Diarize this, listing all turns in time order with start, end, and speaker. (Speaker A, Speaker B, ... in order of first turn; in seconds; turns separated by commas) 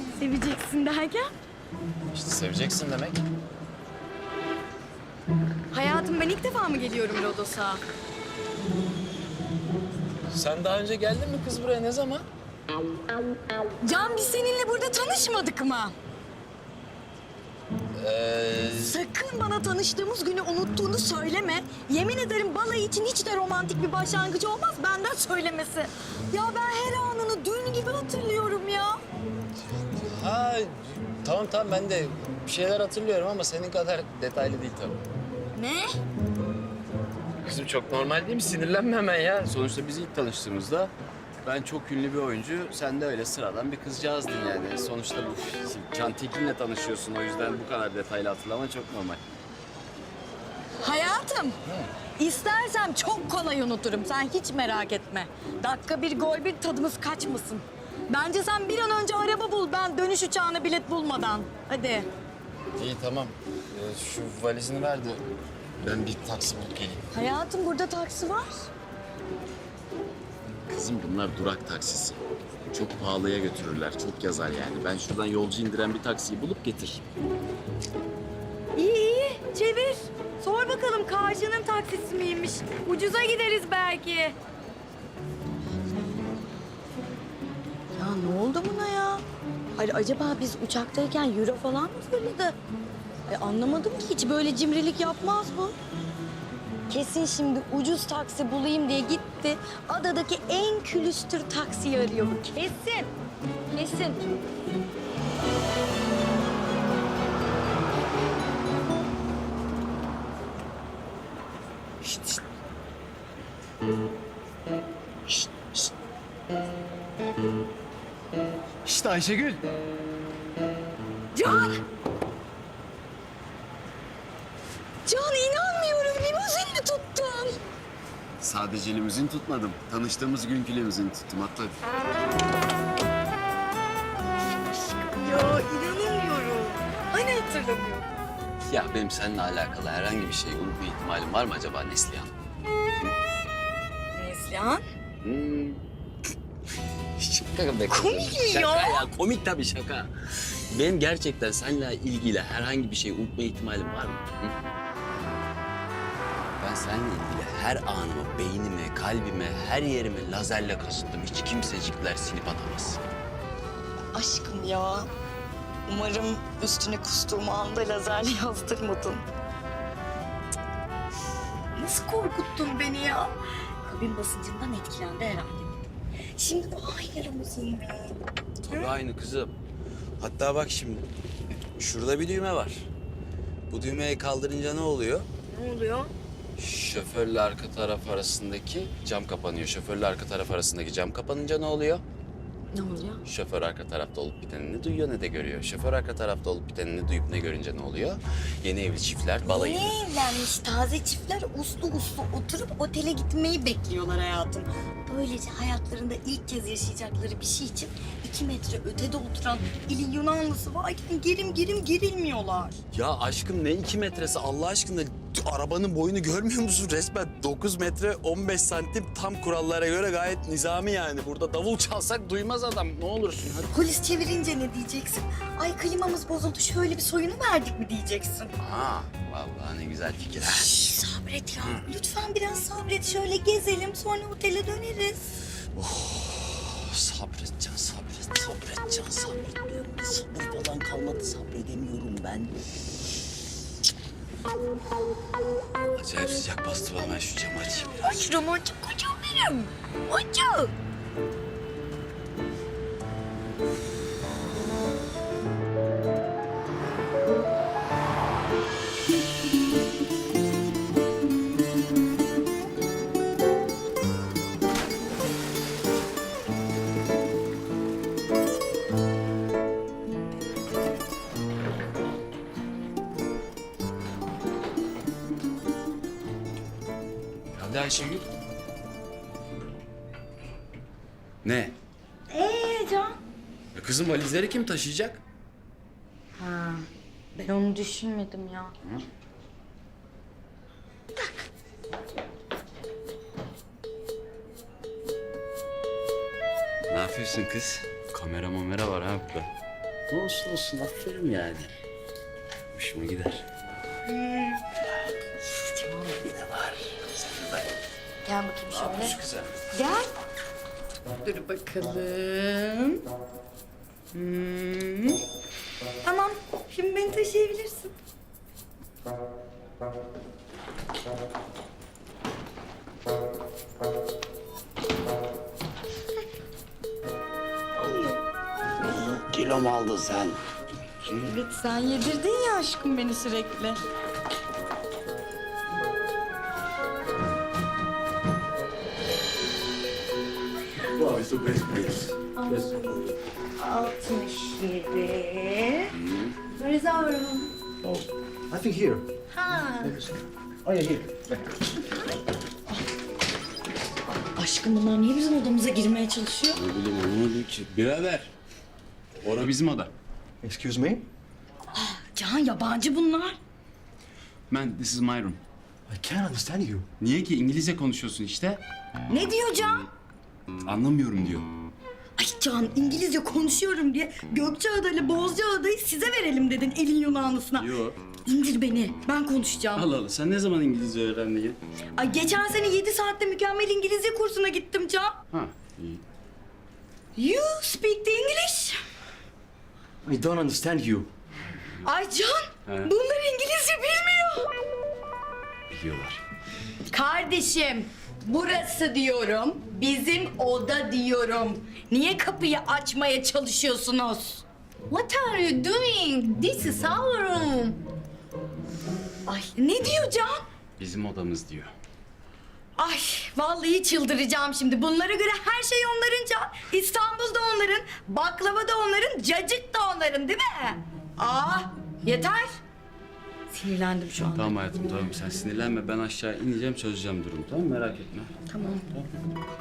Speaker A: 0.2-1.3, Speaker B: 2.1-3.2, Speaker A: 5.7-7.8, Speaker B: 10.3-12.2, Speaker A: 13.8-15.9, Speaker B: 18.0-19.0, Speaker A: 18.8-29.0, Speaker B: 29.9-35.0, Speaker A: 35.5-35.9, Speaker B: 37.4-40.9, Speaker B: 41.4-49.2, Speaker A: 50.8-51.6, Speaker A: 52.2-62.1, Speaker B: 62.8-65.2, Speaker B: 65.8-67.0, Speaker A: 67.1-68.7, Speaker B: 70.7-77.0, Speaker A: 78.8-84.3, Speaker A: 88.0-89.2, Speaker A: 89.8-92.6, Speaker A: 93.3-95.8, Speaker A: 96.9-103.1, Speaker A: 103.7-104.2, Speaker B: 118.8-119.6, Speaker A: 121.3-121.8, Speaker A: 125.1-127.6, Speaker B: 128.4-131.8, Speaker A: 135.0-138.1, Speaker B: 138.7-142.3, Speaker A: 144.1-144.8, Speaker B: 145.2-145.8, Speaker B: 147.2-154.5, Speaker A: 147.9-149.1, Speaker B: 156.6-163.0, Speaker A: 164.1-165.1, Speaker A: 165.9-169.2, Speaker A: 171.8-175.8, Speaker A: 176.3-178.2, Speaker B: 178.6-179.5, Speaker B: 180.2-181.1, Speaker B: 181.8-182.9, Speaker B: 183.7-185.3, Speaker A: 185.5-186.1, Speaker B: 186.6-192.0, Speaker A: 192.7-193.2, Speaker B: 193.2-200.0, Speaker A: 199.4-212.8, Speaker B: 212.9-223.7, Speaker A: 223.7-228.5, Speaker B: 228.6-230.8, Speaker A: 230.4-235.3, Speaker B: 235.7-242.5, Speaker B: 245.9-248.2, Speaker A: 248.0-250.7, Speaker B: 277.5-278.3, Speaker B: 281.4-281.7, Speaker A: 282.3-283.2, Speaker B: 283.8-285.2, Speaker A: 286.4-288.7, Speaker B: 296.9-299.5, Speaker B: 300.1-301.7, Speaker B: 302.7-303.4, Speaker A: 304.1-304.6, Speaker B: 305.8-307.7, Speaker A: 308.2-309.2, Speaker B: 308.7-309.6, Speaker A: 309.7-310.1, Speaker A: 311.2-313.0, Speaker A: 314.1-315.2, Speaker A: 316.0-317.9, Speaker A: 327.8-328.2, Speaker B: 328.9-330.4, Speaker A: 331.1-333.8, Speaker C: 341.0-342.0, Speaker B: 341.0-342.1, Speaker A: 343.6-345.9, Speaker B: 345.9-346.4, Speaker A: 346.5-347.5, Speaker C: 347.8-349.1, Speaker A: 349.3-350.0, Speaker C: 349.7-351.4, Speaker A: 354.3-356.6, Speaker B: 356.6-358.3, Speaker B: 359.2-359.9, Speaker C: 360.4-361.1, Speaker A: 361.7-363.4, Speaker B: 364.5-365.4, Speaker C: 365.9-366.9, Speaker B: 367.0-368.6, Speaker A: 369.1-369.9, Speaker B: 370.6-371.5, Speaker A: 372.2-377.7, Speaker B: 377.6-378.0, Speaker A: 378.2-379.9, Speaker B: 379.8-381.6, Speaker A: 382.0-385.1, Speaker B: 385.3-386.0, Speaker A: 387.2-388.8, Speaker C: 390.1-391.1, Speaker A: 391.8-394.5, Speaker B: 395.7-396.2, Speaker A: 396.9-407.8, Speaker A: 409.3-410.4, Speaker B: 410.8-411.7, Speaker A: 412.8-422.6, Speaker A: 423.5-424.6, Speaker B: 424.3-428.4, Speaker A: 428.5-428.9